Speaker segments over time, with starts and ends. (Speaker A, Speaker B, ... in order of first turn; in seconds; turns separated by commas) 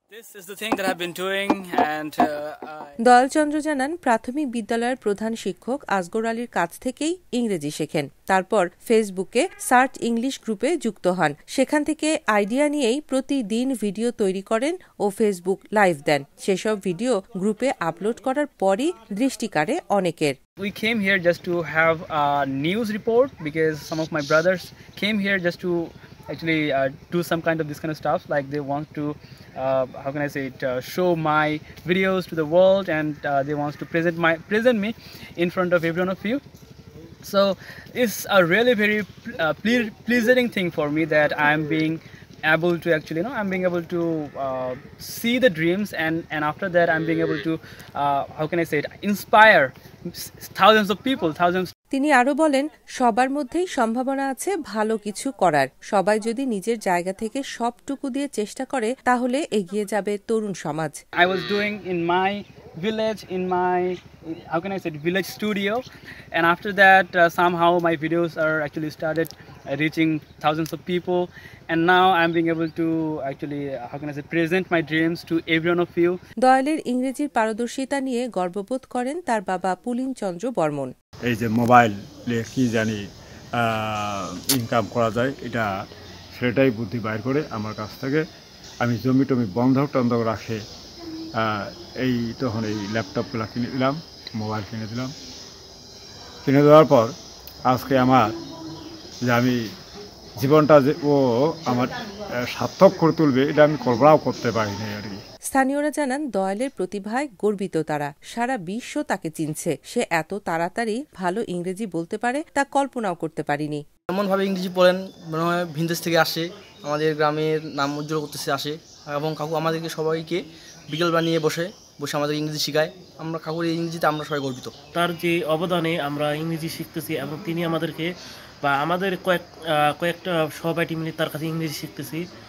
Speaker A: 0.1-3.0, Speaker B: 3.0-20.4, Speaker A: 20.6-36.4, Speaker A: 37.2-51.7, Speaker B: 51.9-61.0, Speaker A: 61.2-76.2, Speaker B: 76.4-80.9, Speaker C: 81.3-83.0, Speaker C: 83.8-85.7, Speaker C: 86.4-88.2, Speaker C: 88.8-90.6, Speaker C: 92.0-95.1, Speaker C: 96.5-97.1, Speaker C: 97.7-98.2, Speaker C: 99.3-99.5, Speaker C: 100.4-101.9, Speaker C: 102.6-105.2, Speaker B: 105.5-113.8, Speaker D: 114.1-124.7, Speaker E: 124.9-128.1, Speaker E: 128.6-129.4, Speaker E: 130.0-132.2